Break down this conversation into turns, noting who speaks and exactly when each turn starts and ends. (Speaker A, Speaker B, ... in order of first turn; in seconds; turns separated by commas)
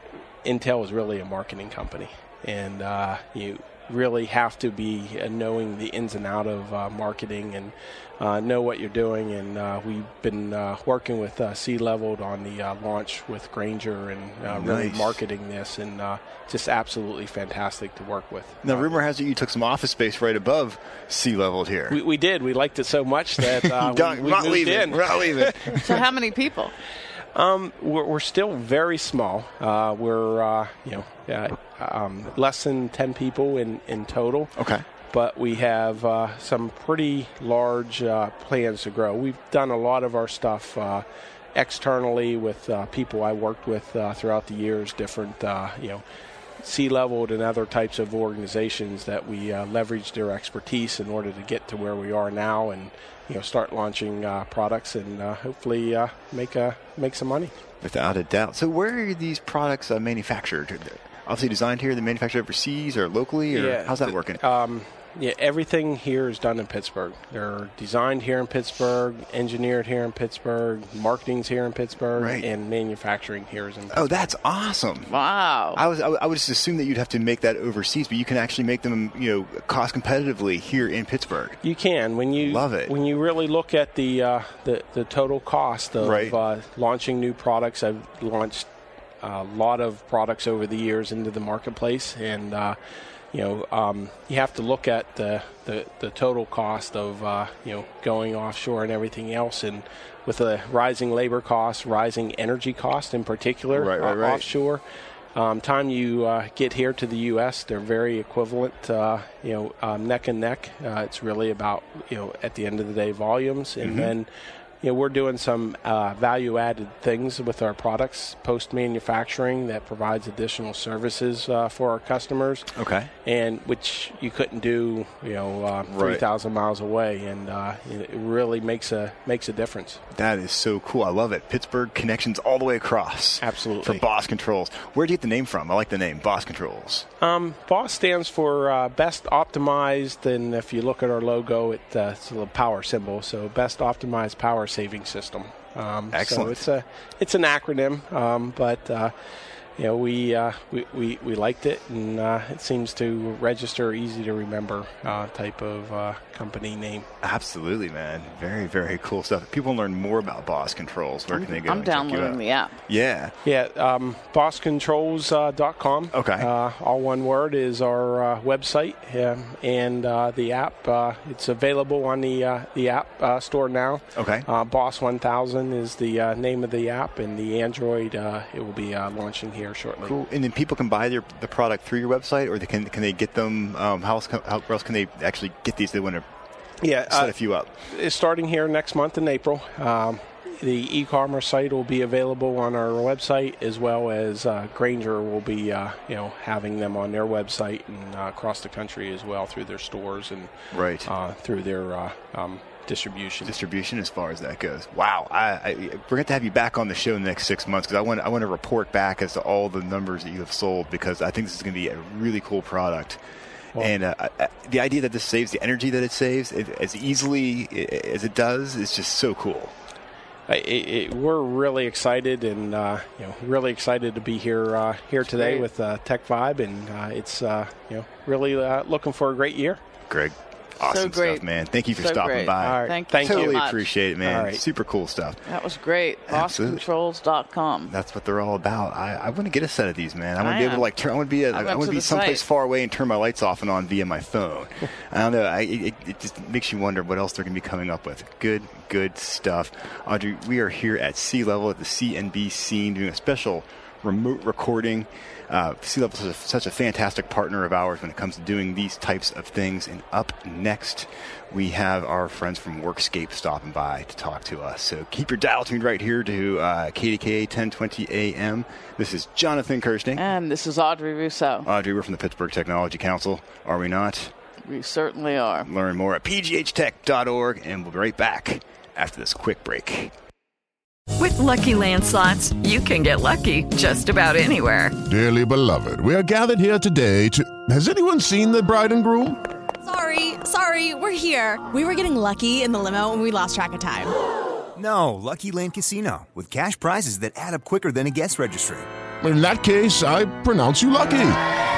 Speaker A: 0.4-19.0, Speaker B: 14.5-15.2, Speaker B: 18.6-22.0, Speaker A: 21.9-26.0, Speaker B: 23.4-25.9, Speaker C: 25.8-26.7, Speaker A: 27.4-34.5, Speaker B: 34.6-34.8, Speaker A: 35.1-46.0, Speaker A: 46.6-57.5, Speaker B: 57.8-64.4, Speaker A: 63.5-74.3, Speaker B: 72.1-72.5, Speaker B: 73.9-75.1, Speaker C: 75.1-75.8, Speaker B: 75.7-81.6, Speaker A: 81.6-88.7, Speaker B: 82.4-82.9, Speaker B: 86.0-86.4, Speaker A: 89.2-92.8, Speaker A: 93.3-104.8, Speaker B: 103.7-104.5, Speaker A: 105.3-114.3, Speaker B: 113.8-114.1, Speaker A: 114.8-122.7, Speaker B: 122.7-123.1, Speaker A: 123.2-130.0, Speaker B: 125.9-126.2, Speaker B: 130.1-137.1, Speaker A: 133.4-134.1, Speaker A: 137.2-149.1, Speaker B: 146.1-146.6, Speaker A: 149.8-157.1, Speaker B: 157.2-163.3, Speaker C: 161.3-162.8, Speaker A: 163.4-180.2, Speaker B: 166.1-166.5, Speaker B: 174.2-174.5, Speaker B: 180.0-186.2, Speaker A: 186.8-200.5, Speaker B: 187.1-187.7, Speaker B: 200.7-201.1, Speaker A: 201.1-203.6, Speaker B: 203.4-213.2, Speaker B: 213.8-219.7, Speaker A: 220.5-229.8, Speaker C: 225.3-225.7, Speaker B: 230.1-235.4, Speaker C: 230.8-233.9, Speaker A: 232.6-233.7, Speaker A: 234.2-234.6, Speaker C: 235.5-237.9, Speaker B: 236.3-236.8, Speaker B: 237.9-270.3, Speaker C: 240.4-240.9, Speaker C: 241.5-242.5, Speaker C: 270.2-271.7, Speaker B: 271.6-274.3, Speaker C: 274.7-275.7, Speaker B: 275.6-280.1, Speaker D: 281.2-285.0, Speaker E: 285.1-289.4, Speaker F: 289.9-294.1, Speaker G: 294.8-298.9, Speaker E: 299.2-301.4